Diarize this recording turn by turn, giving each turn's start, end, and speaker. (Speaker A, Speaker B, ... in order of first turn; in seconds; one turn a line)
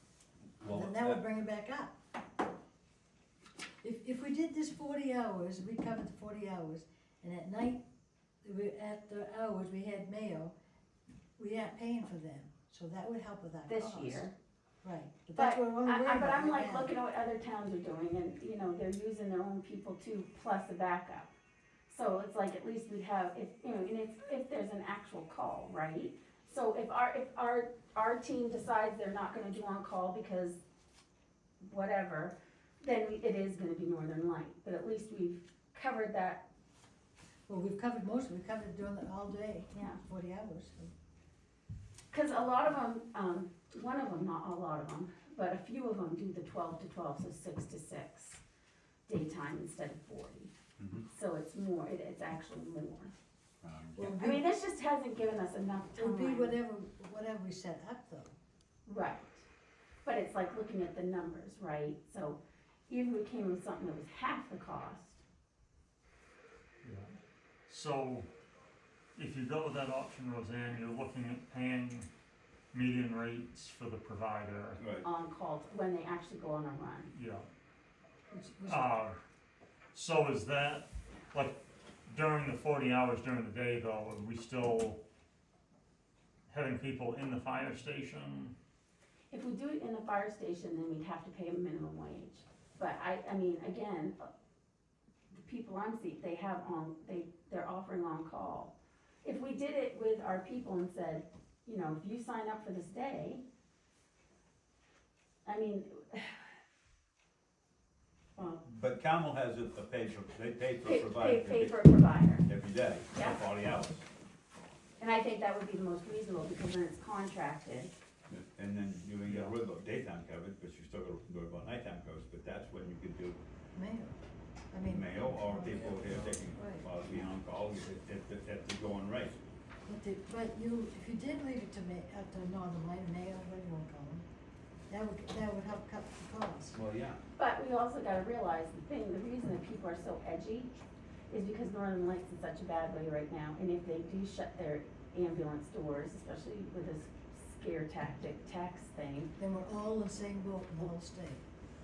Speaker A: 0.6-1.2
Speaker B: 0.7-1.9
Speaker B: 3.8-7.8
Speaker B: 8.4-10.5
Speaker B: 11.4-14.3
Speaker C: 13.7-14.3
Speaker B: 14.8-16.9
Speaker C: 15.3-21.3
Speaker C: 21.9-30.6
Speaker C: 31.6-36.4
Speaker B: 37.5-40.9
Speaker C: 42.1-48.4
Speaker C: 49.1-50.5
Speaker A: 50.8-51.0
Speaker C: 51.1-53.1
Speaker A: 53.6-54.1
Speaker B: 54.0-54.5
Speaker C: 54.1-56.6
Speaker B: 56.0-58.4
Speaker C: 58.9-59.5
Speaker C: 60.0-65.2
Speaker D: 66.8-67.1
Speaker D: 67.7-68.3
Speaker D: 69.2-72.1
Speaker D: 72.7-74.8
Speaker A: 74.8-75.0
Speaker C: 75.0-77.1
Speaker D: 77.1-77.5
Speaker B: 78.3-78.9
Speaker D: 78.7-79.2
Speaker D: 79.9-85.0
Speaker D: 86.5-88.5
Speaker C: 89.3-94.2
Speaker C: 95.4-103.4
Speaker C: 105.5-106.4
Speaker C: 108.4-108.6
Speaker A: 108.7-111.8
Speaker C: 110.8-112.5
Speaker A: 112.4-114.1
Speaker C: 113.1-113.4
Speaker C: 115.0-117.9
Speaker A: 118.3-123.4
Speaker D: 119.2-119.5
Speaker B: 123.7-124.2
Speaker B: 124.7-127.1
Speaker A: 124.9-129.4
Speaker B: 129.9-134.3
Speaker B: 134.9-136.8
Speaker A: 136.7-137.2
Speaker C: 137.4-140.7
Speaker C: 141.3-149.3
Speaker B: 149.4-151.5